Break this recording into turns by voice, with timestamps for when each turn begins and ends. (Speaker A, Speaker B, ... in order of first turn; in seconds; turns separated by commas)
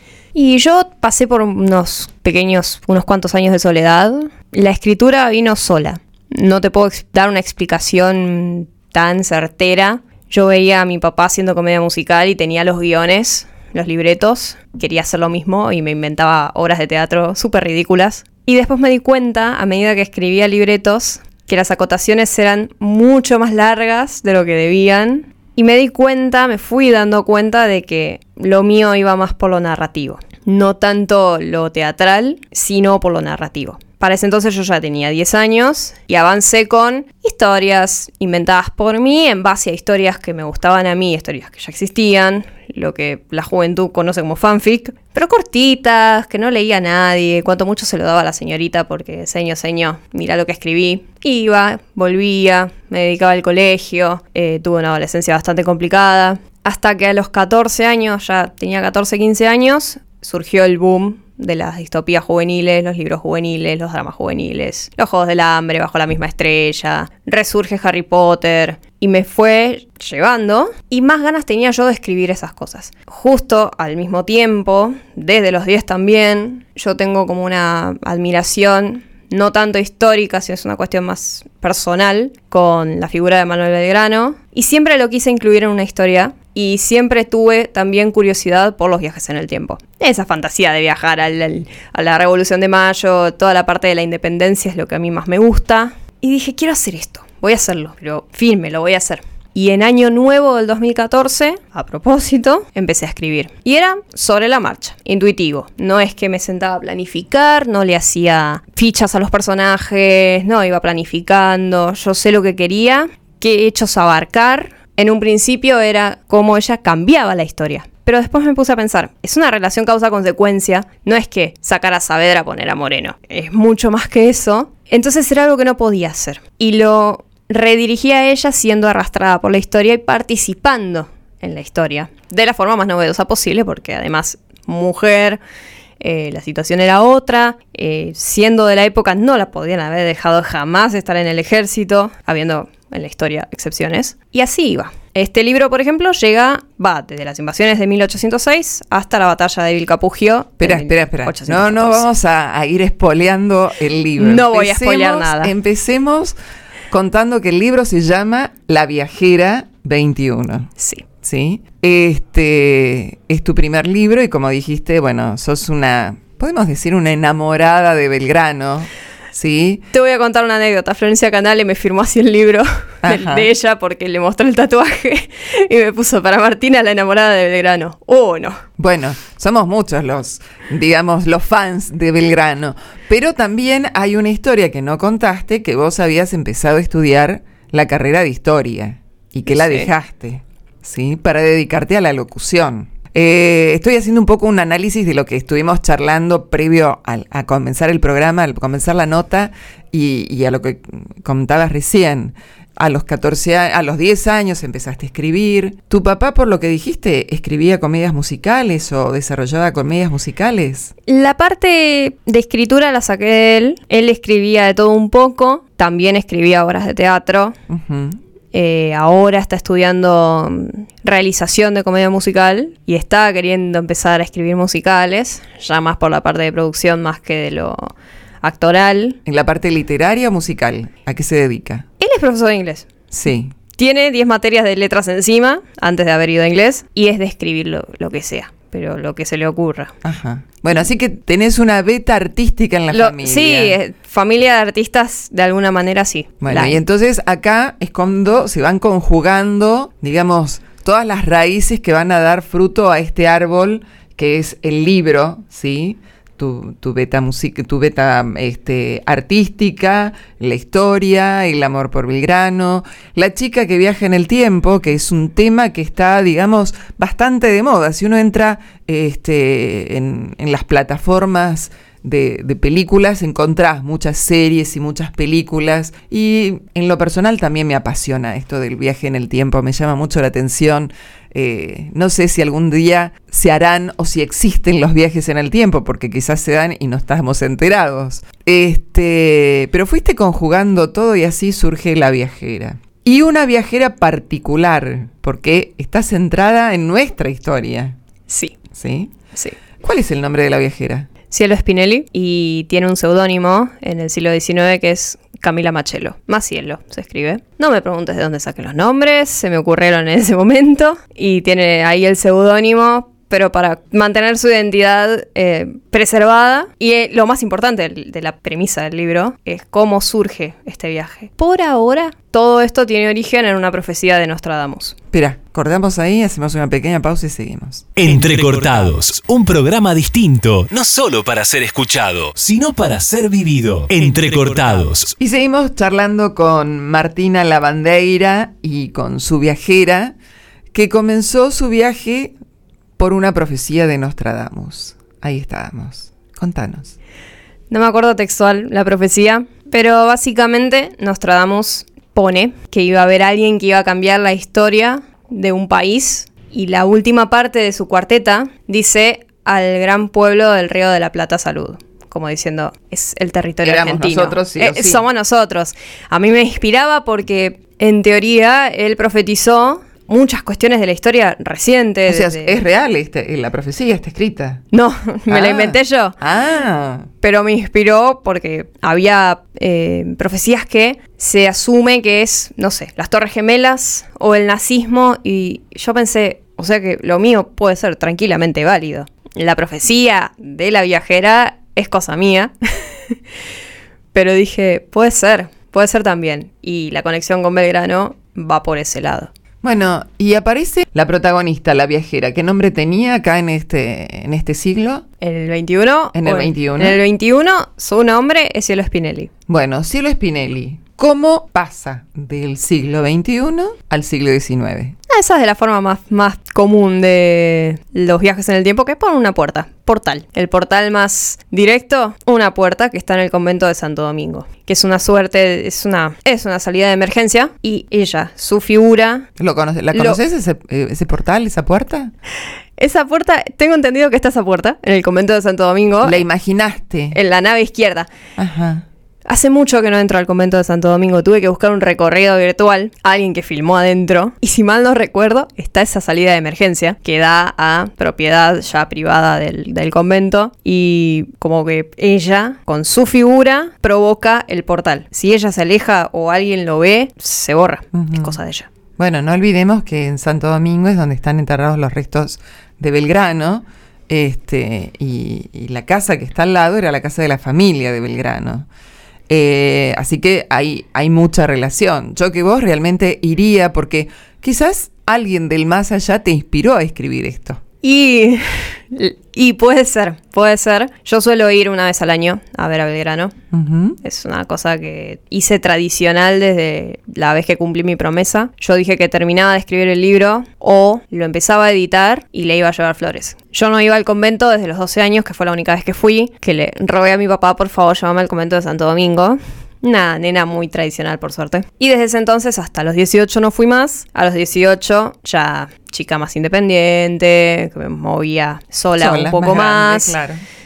Speaker A: 0.3-135.4, Speaker A: 136.0-152.1, Speaker B: 150.6-156.4, Speaker A: 154.2-155.5, Speaker B: 156.9-160.7, Speaker A: 160.8-161.1, Speaker B: 161.2-169.9, Speaker A: 169.9-178.6, Speaker B: 173.0-173.5, Speaker B: 178.8-210.9, Speaker A: 189.5-189.9, Speaker A: 211.1-217.6, Speaker B: 217.7-218.2, Speaker A: 218.5-229.2, Speaker B: 229.3-231.8, Speaker A: 232.0-232.9, Speaker B: 233.1-233.5, Speaker A: 233.8-239.9, Speaker B: 240.0-243.8, Speaker A: 242.9-246.8, Speaker B: 246.4-297.9, Speaker A: 298.3-298.6, Speaker B: 298.7-299.1, Speaker B: 299.8-301.1, Speaker A: 301.3-325.0, Speaker B: 325.1-327.9, Speaker C: 328.0-335.2, Speaker B: 335.2-340.1, Speaker B: 340.7-342.3, Speaker B: 343.0-347.0, Speaker A: 347.7-372.6, Speaker B: 363.6-365.0, Speaker B: 372.1-374.6, Speaker A: 374.7-376.2, Speaker B: 375.3-377.1, Speaker A: 377.2-393.2, Speaker A: 394.1-399.3, Speaker B: 399.6-405.1, Speaker A: 405.2-409.3, Speaker B: 406.1-407.0, Speaker B: 409.5-415.0, Speaker A: 415.1-429.3, Speaker B: 429.4-432.1, Speaker A: 429.9-430.2, Speaker A: 432.8-436.2, Speaker B: 436.0-437.1, Speaker A: 437.1-438.1, Speaker B: 438.4-438.9, Speaker A: 439.3-458.7, Speaker B: 457.9-458.4, Speaker B: 459.0-468.7, Speaker B: 469.3-477.6, Speaker A: 477.8-483.3, Speaker B: 483.5-484.0, Speaker A: 484.0-510.2, Speaker B: 509.0-510.4